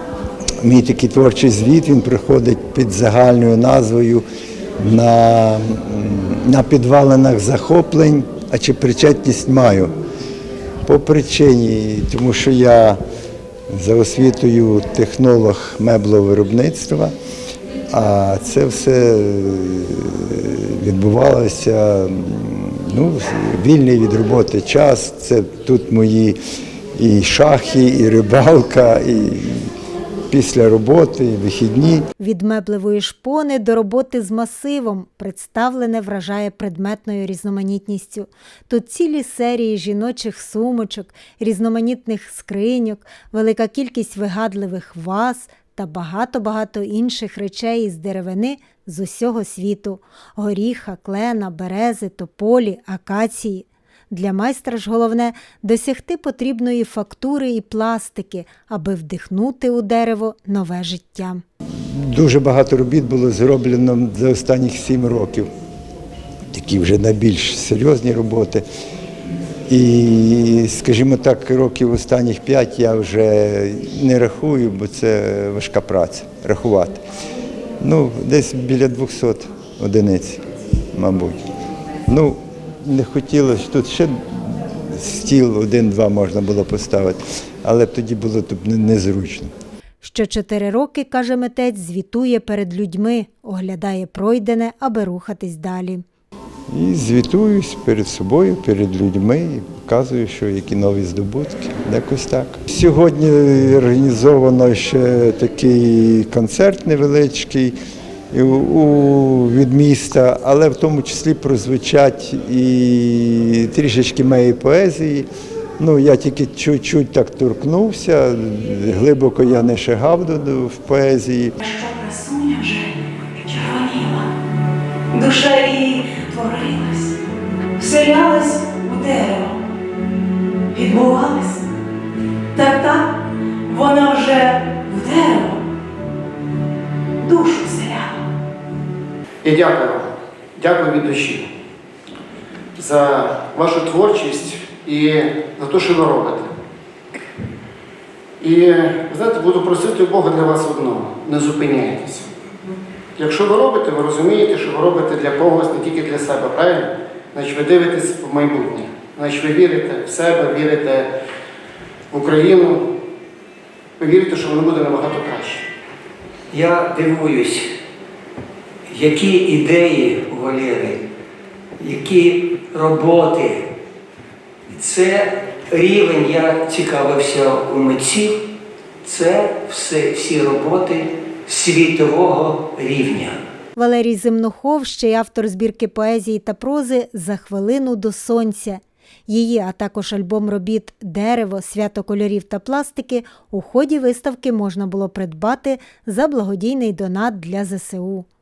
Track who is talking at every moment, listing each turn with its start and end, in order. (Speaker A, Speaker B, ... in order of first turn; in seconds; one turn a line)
Speaker A: 0.6-4.2
Speaker A: 4.8-9.9
Speaker A: 10.8-13.0
Speaker A: 13.7-17.1
Speaker A: 17.9-26.4
Speaker A: 26.9-29.7
Speaker A: 30.3-32.1
Speaker B: 32.2-61.4
Speaker A: 61.8-65.5
Speaker A: 66.5-68.6
Speaker A: 69.7-77.0
Speaker A: 77.8-80.4
Speaker A: 80.9-81.4
Speaker A: 82.1-89.5
Speaker B: 90.0-96.0
Speaker A: 96.7-107.8
Speaker A: 108.3-115.3
Speaker A: 115.8-121.5
Speaker C: 121.6-124.3
Speaker C: 125.1-127.1
Speaker C: 127.8-129.6
Speaker C: 130.7-131.7
Speaker C: 132.5-133.1
Speaker C: 133.7-135.6
Speaker C: 137.2-138.2
Speaker D: 139.4-141.5
Speaker D: 142.8-146.5
Speaker D: 148.4-152.3
Speaker D: 153.2-161.1
Speaker D: 162.1-162.8
Speaker D: 164.0-165.7
Speaker E: 166.5-167.7
Speaker E: 168.9-171.0
Speaker E: 171.8-173.7
Speaker E: 174.7-178.4
Speaker E: 179.0-183.4
Speaker B: 183.8-198.3